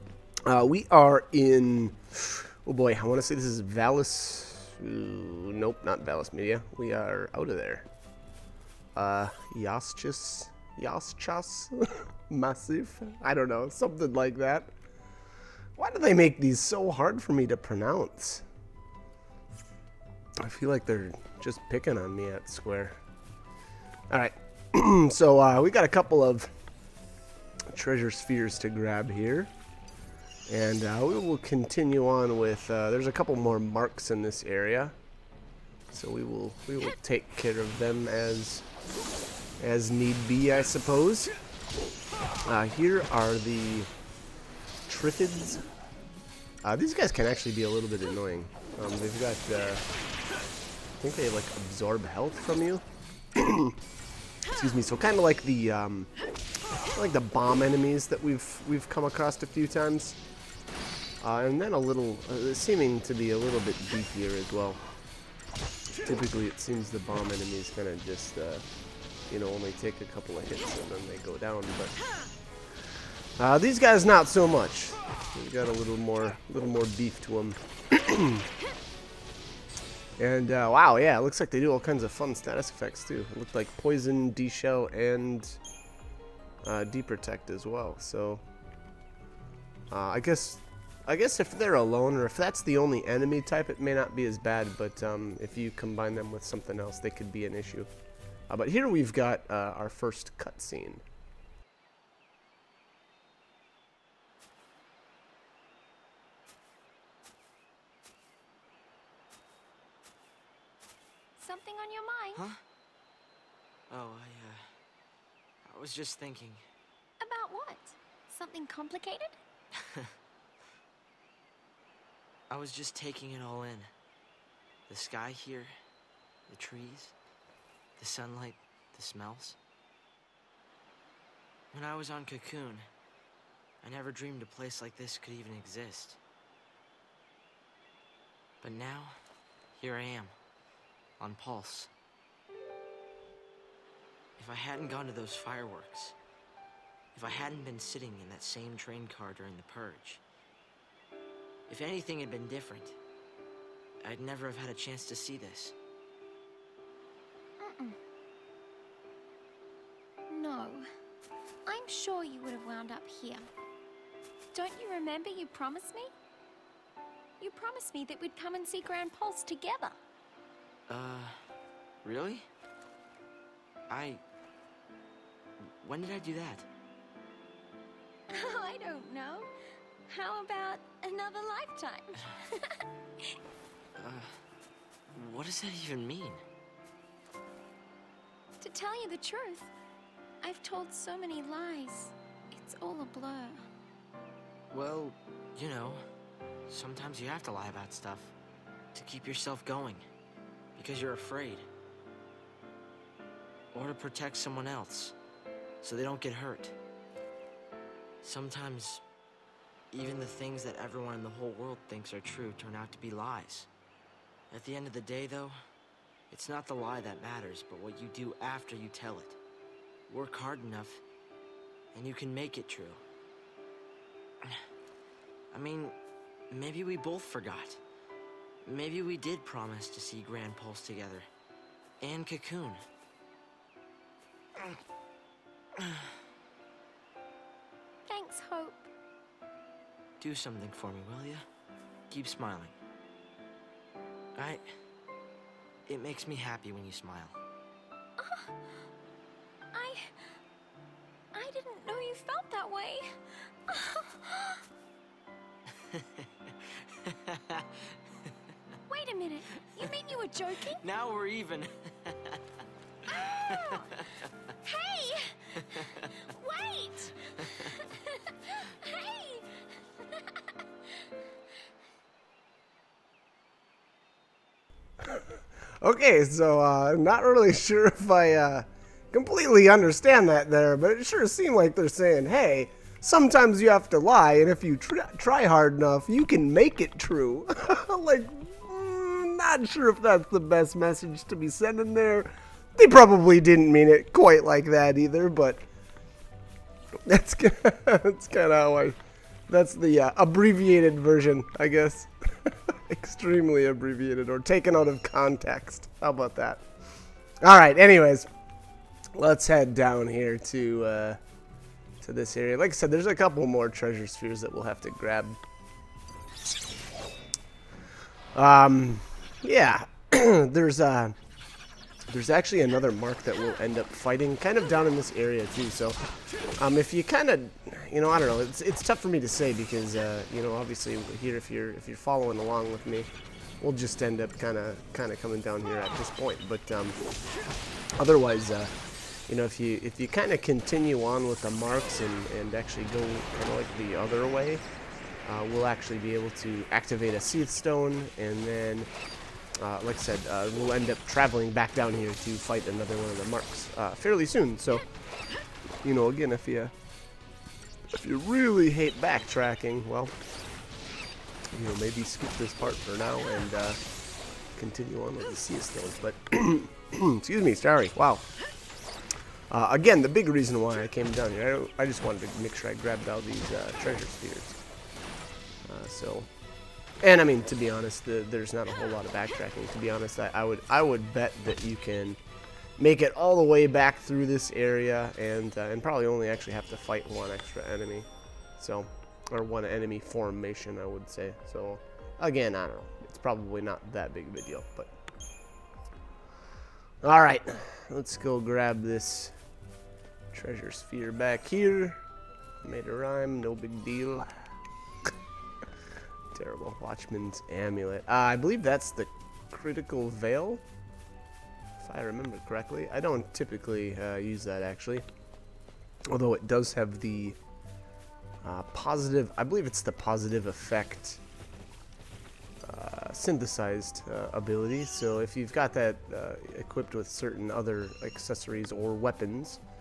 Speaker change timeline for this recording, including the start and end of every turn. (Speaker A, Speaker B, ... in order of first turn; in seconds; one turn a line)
Speaker A: 0.5-7.9
Speaker A: 9.0-14.7
Speaker A: 15.8-18.4
Speaker A: 20.4-23.0
Speaker A: 24.1-26.5
Speaker A: 27.7-29.5
Speaker A: 30.5-35.0
Speaker A: 35.9-38.7
Speaker A: 39.6-41.3
Speaker A: 42.5-43.9
Speaker A: 44.9-45.6
Speaker A: 46.6-49.8
Speaker A: 51.0-53.8
Speaker A: 54.5-56.1
Speaker A: 56.9-60.2
Speaker A: 61.2-64.8
Speaker A: 66.0-68.7
Speaker A: 69.3-72.0
Speaker A: 73.4-78.5
Speaker A: 80.2-85.6
Speaker A: 86.6-88.4
Speaker A: 89.9-97.9
Speaker A: 98.5-101.0
Speaker B: 111.4-112.4
Speaker C: 112.3-112.6
Speaker C: 113.9-114.7
Speaker C: 115.7-116.6
Speaker B: 117.2-119.4
Speaker C: 119.7-120.1
Speaker C: 122.5-123.9
Speaker C: 124.9-125.7
Speaker C: 126.5-127.2
Speaker C: 128.0-129.6
Speaker C: 131.7-132.9
Speaker C: 133.8-136.2
Speaker C: 138.6-139.2
Speaker C: 139.7-140.3
Speaker C: 141.2-141.9
Speaker C: 144.4-146.2
Speaker C: 147.1-150.2
Speaker C: 151.7-153.0
Speaker C: 154.0-155.8
Speaker B: 157.6-158.0
Speaker B: 160.3-160.9
Speaker B: 161.7-163.5
Speaker B: 164.5-166.1
Speaker B: 167.4-170.0
Speaker C: 170.9-171.4
Speaker C: 172.0-172.5
Speaker C: 173.9-174.2
Speaker C: 175.8-176.7
Speaker B: 178.3-179.5
Speaker B: 180.1-183.4
Speaker C: 184.0-184.4
Speaker C: 185.1-186.4
Speaker B: 188.6-189.7
Speaker B: 190.4-193.6
Speaker C: 194.7-196.0
Speaker C: 196.7-198.3
Speaker C: 198.9-200.0
Speaker C: 200.8-201.7
Speaker C: 203.7-205.2
Speaker C: 205.8-206.8
Speaker C: 208.2-209.0
Speaker C: 209.9-213.7
Speaker C: 214.5-215.6
Speaker C: 216.3-219.4
Speaker C: 220.1-221.0
Speaker C: 221.9-223.0
Speaker C: 225.5-226.0
Speaker C: 226.5-227.8
Speaker C: 228.7-231.3
Speaker C: 232.0-232.8
Speaker C: 234.6-234.8
Speaker C: 235.8-236.2
Speaker B: 238.1-238.9
Speaker C: 240.2-241.4
Speaker C: 242.1-242.8
Speaker C: 244.4-244.6
Speaker C: 245.9-247.4
Speaker B: 248.2-248.8
Speaker B: 249.7-250.3
Speaker B: 251.3-254.6
Speaker C: 255.7-258.3
Speaker B: 258.9-260.8
Speaker C: 260.6-264.3
Speaker B: 263.2-263.9
Speaker B: 264.6-270.5
Speaker C: 265.6-266.1
Speaker C: 267.4-267.8
Speaker A: 275.0-275.3
Speaker A: 275.8-295.6
Speaker A: 297.1-299.0
Speaker A: 299.5-306.6
Speaker A: 307.4-308.3
Speaker A: 309.1-311.2
Speaker A: 312.0-315.4
Speaker A: 318.3-321.1
Speaker A: 322.1-326.0
Speaker A: 326.6-333.1
Speaker A: 333.6-337.0
Speaker A: 338.0-338.7
Speaker A: 339.3-344.6
Speaker A: 345.2-348.9
Speaker A: 349.6-354.9
Speaker A: 355.8-356.7
Speaker A: 357.9-360.1
Speaker A: 361.5-363.8
Speaker A: 364.6-368.3
Speaker A: 369.5-374.6
Speaker A: 375.7-376.3
Speaker A: 377.0-382.2
Speaker A: 382.8-394.9
Speaker A: 397.0-399.3
Speaker A: 400.3-402.0
Speaker A: 402.6-404.4
Speaker A: 406.3-410.6
Speaker A: 411.8-415.1
Speaker A: 416.1-417.4
Speaker A: 418.4-421.2
Speaker A: 422.6-429.6